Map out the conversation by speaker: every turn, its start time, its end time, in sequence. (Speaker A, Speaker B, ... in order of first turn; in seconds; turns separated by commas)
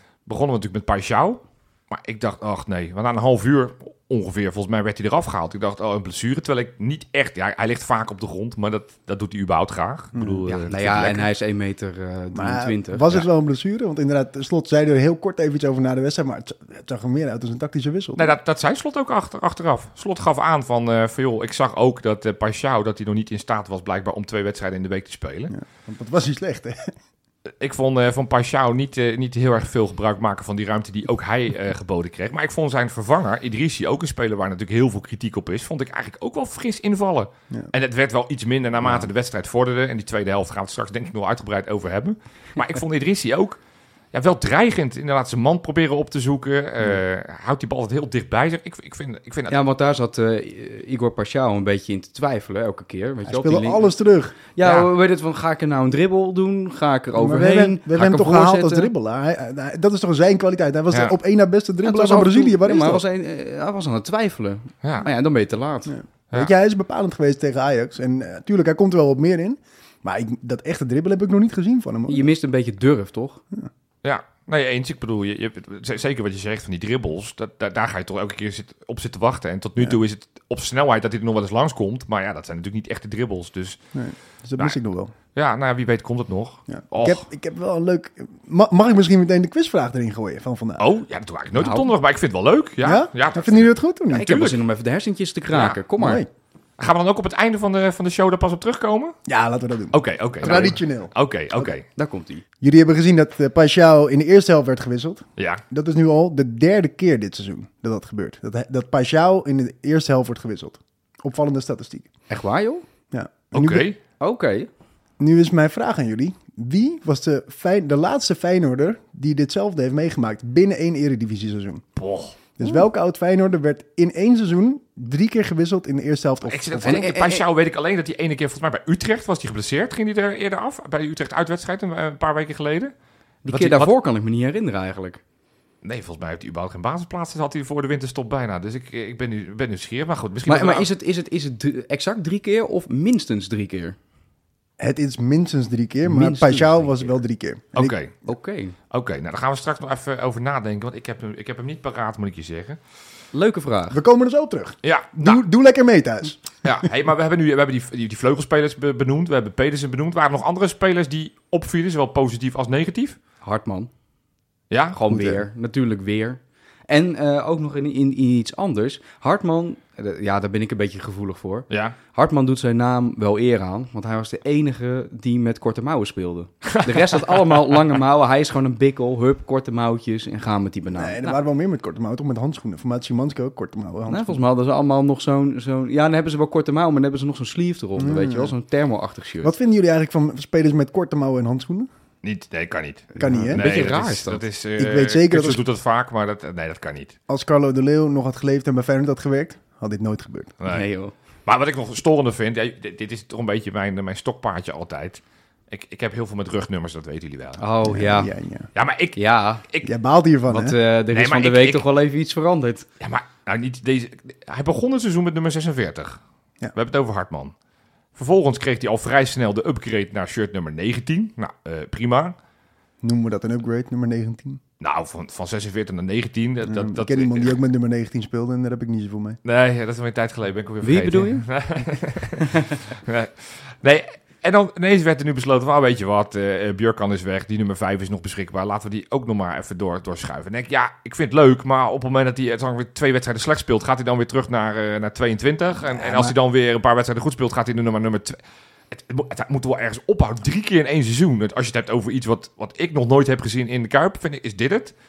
Speaker A: 0.2-11.3, Speaker B: 10.1-10.5, Speaker C: 10.4-13.2, Speaker B: 12.3-18.3, Speaker A: 18.1-25.5, Speaker B: 25.5-26.9, Speaker A: 27.6-43.6, Speaker A: 44.1-49.6, Speaker C: 49.5-53.9, Speaker B: 53.2-54.4, Speaker C: 54.5-58.9, Speaker A: 54.6-54.9, Speaker B: 57.1-63.0, Speaker C: 61.8-66.0, Speaker B: 65.9-72.3, Speaker C: 72.1-73.4, Speaker A: 74.0-83.8, Speaker B: 83.9-85.1, Speaker A: 85.3-87.2, Speaker B: 86.7-90.8, Speaker A: 90.8-94.6, Speaker C: 91.5-91.9, Speaker B: 92.8-94.3, Speaker C: 94.1-96.2, Speaker A: 95.5-95.8, Speaker B: 96.0-96.3, Speaker A: 96.8-99.1, Speaker B: 99.3-101.1, Speaker A: 99.9-101.8, Speaker C: 101.9-102.4, Speaker B: 102.6-112.1, Speaker C: 112.3-112.8, Speaker B: 113.1-113.9, Speaker A: 113.5-114.0, Speaker C: 114.2-114.7, Speaker B: 115.2-121.8, Speaker A: 122.0-122.4, Speaker B: 122.6-127.1, Speaker A: 126.4-132.9, Speaker C: 126.8-127.4, Speaker C: 133.4-135.2, Speaker A: 133.5-133.9, Speaker A: 135.8-140.9, Speaker C: 140.5-143.9, Speaker B: 144.8-147.9, Speaker C: 146.1-147.1, Speaker A: 147.7-148.2, Speaker C: 148.2-148.7, Speaker A: 148.9-152.8, Speaker C: 153.3-154.0, Speaker B: 153.9-156.4, Speaker A: 154.8-155.4, Speaker A: 156.6-163.2, Speaker C: 163.4-163.9, Speaker A: 164.7-165.0, Speaker C: 164.9-181.4, Speaker B: 165.1-165.4, Speaker A: 171.7-171.9, Speaker A: 176.6-177.8, Speaker B: 180.9-184.4, Speaker C: 184.1-189.5, Speaker B: 188.0-188.5, Speaker B: 189.4-191.9, Speaker A: 192.2-197.1, Speaker C: 193.1-194.4, Speaker B: 193.2-193.6, Speaker B: 194.8-195.6, Speaker B: 197.3-200.5, Speaker A: 200.6-200.8, Speaker C: 200.7-201.1, Speaker A: 201.4-207.6, Speaker C: 207.6-208.3, Speaker B: 207.9-208.7, Speaker A: 208.7-209.9, Speaker C: 209.2-209.6, Speaker B: 209.8-210.8, Speaker C: 210.5-212.9, Speaker A: 211.1-211.8, Speaker A: 213.0-216.2, Speaker A: 216.7-217.5, Speaker A: 218.1-222.3, Speaker B: 223.0-224.6, Speaker A: 224.8-227.6, Speaker B: 226.6-229.4, Speaker A: 229.4-248.4, Speaker C: 230.8-231.4, Speaker B: 245.9-246.3, Speaker A: 248.9-254.9